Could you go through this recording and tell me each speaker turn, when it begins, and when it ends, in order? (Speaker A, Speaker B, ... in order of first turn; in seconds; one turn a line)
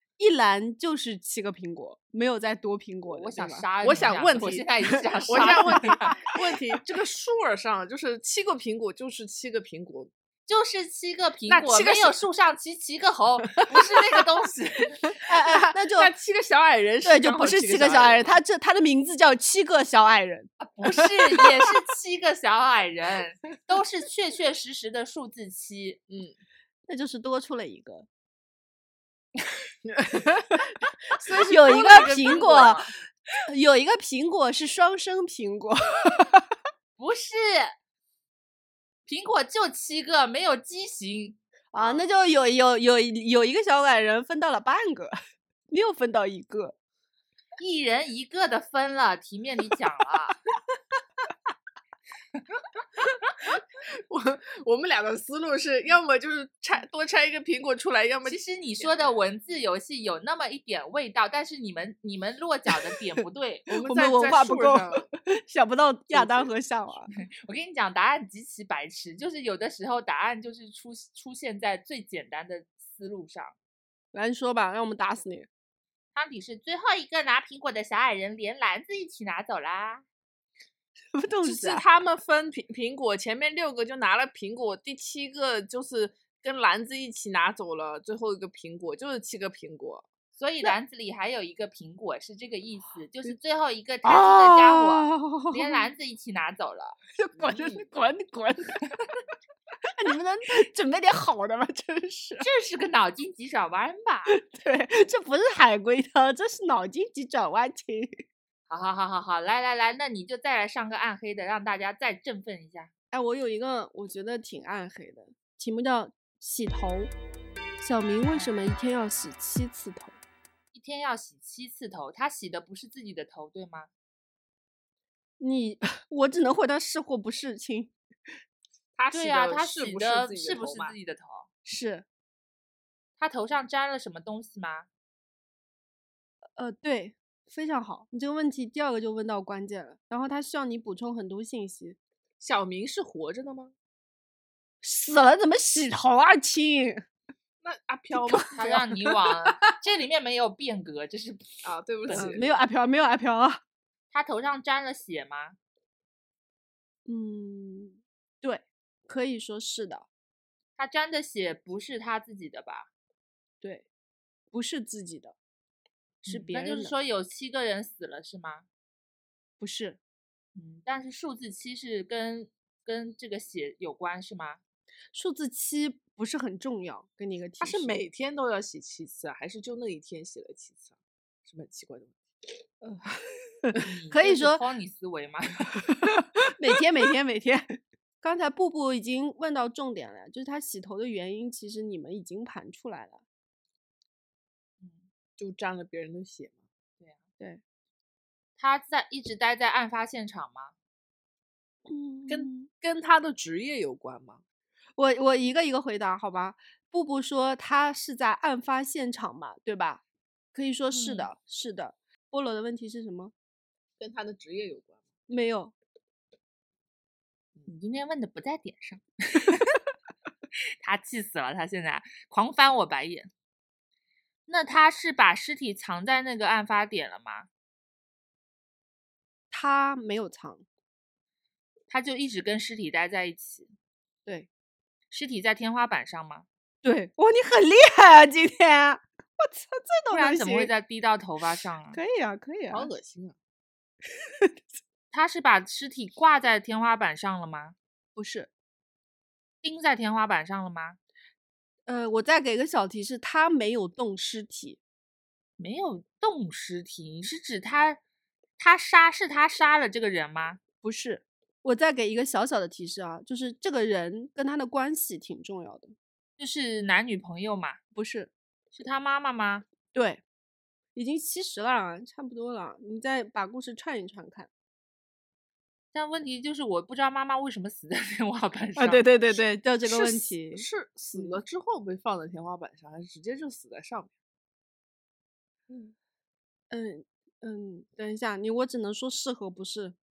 Speaker A: 0.2-3.6
Speaker B: 3.1-6.2
Speaker C: 3.8-4.7
Speaker C: 5.3-10.1
Speaker B: 10.4-15.1
Speaker C: 11.5-12.2
Speaker A: 15.2-16.1
Speaker C: 15.4-18.4
Speaker A: 17.0-20.5
Speaker B: 20.6-26.0
Speaker A: 26.9-28.1
Speaker C: 29.8-30.6
Speaker B: 31.3-32.9
Speaker A: 31.4-32.9
Speaker A: 33.5-36.5
Speaker B: 37.0-37.7
Speaker B: 39.0-42.0
Speaker A: 41.7-45.1
Speaker A: 45.7-46.8
Speaker B: 47.6-50.4
Speaker C: 53.5-58.4
Speaker B: 58.2-63.7
Speaker C: 63.7-65.1
Speaker A: 63.7-67.1
Speaker C: 66.1-66.5
Speaker B: 67.4-73.5
Speaker A: 74.1-75.5
Speaker B: 76.1-80.0
Speaker A: 81.1-81.8
Speaker C: 81.4-90.0
Speaker B: 90.3-97.0
Speaker A: 94.0-95.8
Speaker A: 97.2-98.9
Speaker C: 97.5-97.8
Speaker A: 99.9-102.5
Speaker B: 102.4-104.3
Speaker A: 104.3-108.2
Speaker B: 108.7-112.9
Speaker A: 113.1-117.1
Speaker A: 117.8-120.2
Speaker B: 120.7-123.9
Speaker A: 125.4-127.9
Speaker C: 128.9-130.9
Speaker B: 129.1-131.5
Speaker A: 131.6-132.0
Speaker B: 133.2-134.9
Speaker A: 136.6-142.0
Speaker C: 142.4-143.7
Speaker A: 144.8-147.0
Speaker C: 147.6-148.8
Speaker A: 148.2-148.7
Speaker B: 148.5-152.4
Speaker C: 151.6-152.6
Speaker A: 152.1-153.6
Speaker B: 154.1-155.6
Speaker A: 157.1-160.1
Speaker B: 160.8-162.9
Speaker A: 164.5-165.3
Speaker B: 166.2-168.7
Speaker A: 166.2-166.9
Speaker A: 169.6-170.0
Speaker B: 170.5-174.6
Speaker A: 175.1-177.9
Speaker C: 177.6-180.9
Speaker C: 181.4-182.1
Speaker A: 183.1-184.6
Speaker B: 183.8-185.8
Speaker A: 185.9-193.2
Speaker B: 194.8-195.1
Speaker C: 195.4-196.6
Speaker B: 198.6-200.7
Speaker A: 201.9-202.7
Speaker C: 202.3-204.4
Speaker A: 205.0-210.0
Speaker A: 210.5-213.3
Speaker B: 210.9-211.3
Speaker C: 214.0-215.0
Speaker A: 215.3-215.7
Speaker B: 217.7-219.8
Speaker B: 220.8-223.3
Speaker B: 224.5-227.5
Speaker A: 229.5-230.6
Speaker B: 231.9-233.7
Speaker B: 235.1-236.5
Speaker A: 236.8-240.7
Speaker B: 240.1-242.0
Speaker A: 241.9-242.9
Speaker C: 242.7-243.3
Speaker B: 245.1-247.8
Speaker A: 248.2-248.5
Speaker B: 249.6-251.0
Speaker A: 251.8-254.8
Speaker B: 255.6-258.0
Speaker B: 258.6-260.6
Speaker A: 260.8-265.9
Speaker B: 266.4-267.8
Speaker A: 267.9-268.3
Speaker B: 268.7-269.6
Speaker A: 269.9-270.2
Speaker A: 270.9-274.5
Speaker B: 275.9-279.1
Speaker A: 278.8-281.4
Speaker C: 279.8-284.1
Speaker A: 286.7-289.9